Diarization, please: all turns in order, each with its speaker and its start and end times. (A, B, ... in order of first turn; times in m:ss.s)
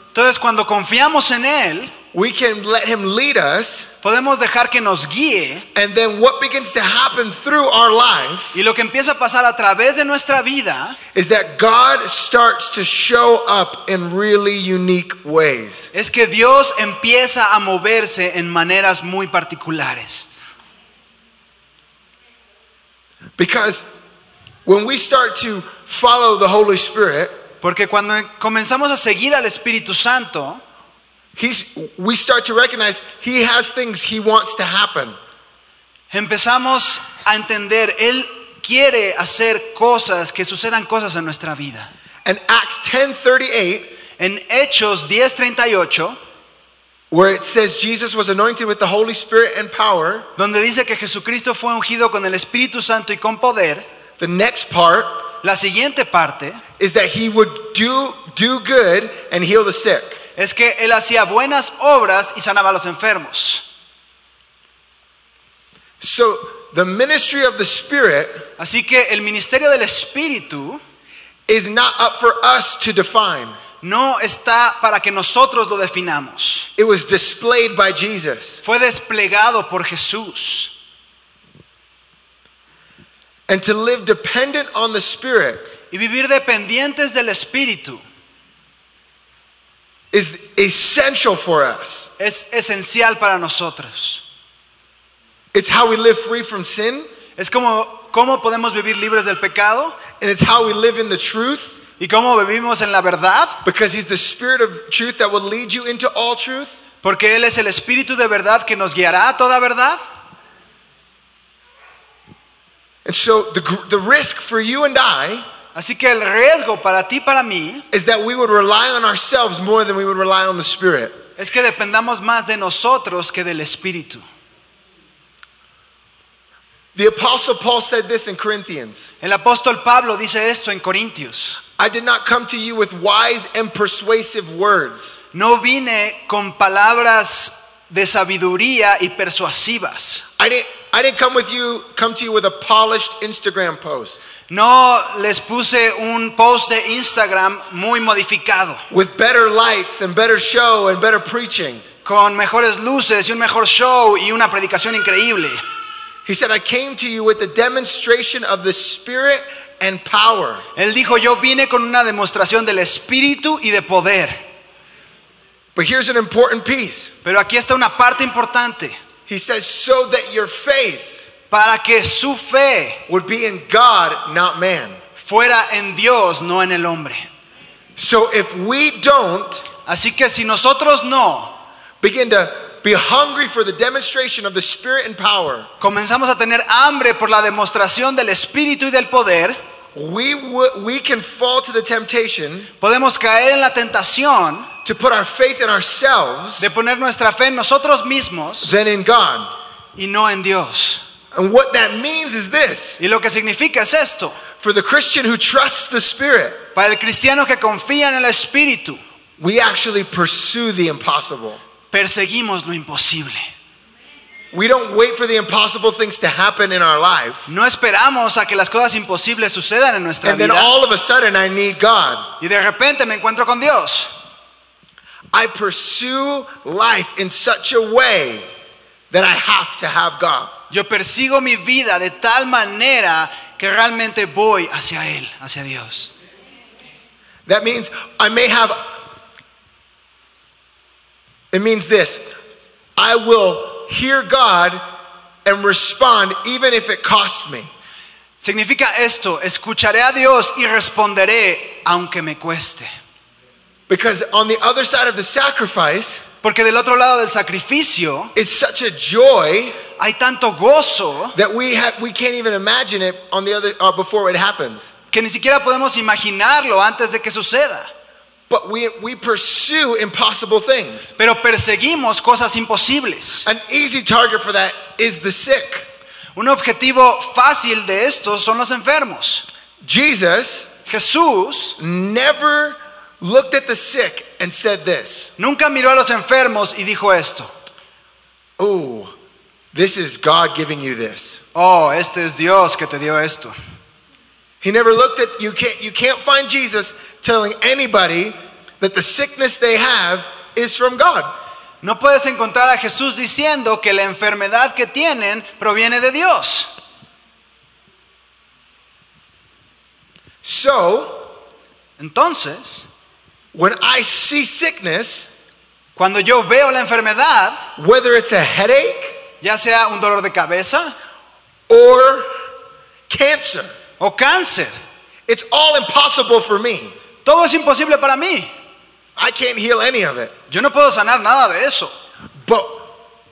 0:00.1-0:01.9 A
0:02.1-0:03.9 B
0:04.0-0:05.7 A
0:05.8-0:08.6 B
0:08.5-0:11.0 A
0:11.1-0:15.9 B
0:15.9-0:20.3 A
0:23.4-0:23.8 B
0:24.6-0:27.4 B
0:27.6-0:30.6 A
0:31.4-0:35.2 B
0:36.1-0:41.9 A
0:42.2-0:43.9 B
0:44.2-0:46.2 A
0:47.1-0:50.3 B
0:50.4-0:53.8 A
0:54.2-0:55.2 B
0:55.4-0:56.6 A
0:56.8-1:00.2 B
1:00.4-1:03.6 A
1:06.0-1:08.5 B
1:08.6-1:10.8 A
1:11.5-1:13.6 B
1:13.8-1:16.7 A
1:16.8-1:18.6 B
1:18.6-1:20.7 A
1:23.5-1:25.7 B
1:25.9-1:28.0 A
1:30.1-1:32.1 B
1:32.2-1:34.2 A
1:35.5-1:37.1 B
1:37.4-1:40.0 A
1:40.2-1:41.8 B
1:42.0-1:43.6 A
1:43.6-1:46.8 B
1:47.0-1:50.0 A
1:53.0-1:55.5 B
1:55.7-1:57.9 A
1:57.9-2:01.2 B
2:01.4-2:04.2 A
2:07.0-2:09.1 B
2:09.2-2:11.6 A
2:11.8-2:15.2 B
2:15.3-2:20.3 A
2:20.4-2:24.2 B
2:24.5-2:28.8 A
2:28.9-2:31.8 B
2:32.0-2:35.6 A
2:36.2-2:40.6 B
2:40.8-2:44.4 A
2:45.8-2:47.1 B
2:47.2-2:49.0 A
2:49.3-2:51.3 B
2:51.5-2:53.0 A
2:53.1-2:55.0 B
2:55.2-2:57.2 A
2:58.0-2:59.7 B
2:59.9-3:01.5 A
3:02.0-3:05.7 B
3:05.8-3:09.6 A
3:10.0-3:12.7 B
3:12.8-3:14.7 A
3:14.8-3:16.7 B
3:16.6-3:18.7 A
3:18.6-3:19.5 B
3:20.0-3:21.0 A
3:21.3-3:23.0 B
3:23.0-3:24.4 A
3:24.6-3:26.6 B
3:26.8-3:29.0 A
3:29.4-3:31.6 B
3:31.9-3:33.5 A
3:34.5-3:37.5 B
3:37.5-3:40.7 A
3:40.2-3:42.3 B
3:42.4-3:44.1 A
3:45.3-3:48.5 B
3:49.1-3:50.5 B
3:50.7-3:56.1 A
3:57.5-3:58.9 B
4:01.5-4:02.3 B
4:03.0-4:04.8 B
4:05.4-4:07.7 B
4:08.4-4:12.9 A
4:13.9-4:16.2 B
4:16.4-4:18.3 A
4:18.4-4:19.8 B
4:20.0-4:21.4 A
4:21.3-4:24.9 B
4:25.1-4:27.9 A
4:28.5-4:31.2 B
4:31.2-4:33.5 A
4:33.4-4:35.9 B
4:36.4-4:39.5 A
4:39.8-4:40.7 B
4:40.9-4:41.8 A
4:41.8-4:45.3 B
4:45.4-4:47.5 A
4:48.6-4:49.1 B
4:49.7-4:51.4 B
4:51.6-4:53.6 A
4:54.6-5:01.3 B
5:01.8-5:06.7 A
5:10.4-5:11.3 B
5:12.0-5:12.9 A
5:13.5-5:15.3 B
5:16.0-5:17.6 A
5:17.8-5:19.2 B
5:19.4-5:20.9 A
5:21.7-5:22.3 B
5:23.1-5:23.8 B
5:24.0-5:24.7 A
5:25.3-5:27.0 B
5:27.2-5:28.5 A
5:29.2-5:30.3 B
5:30.5-5:31.9 A
5:32.4-5:32.9 B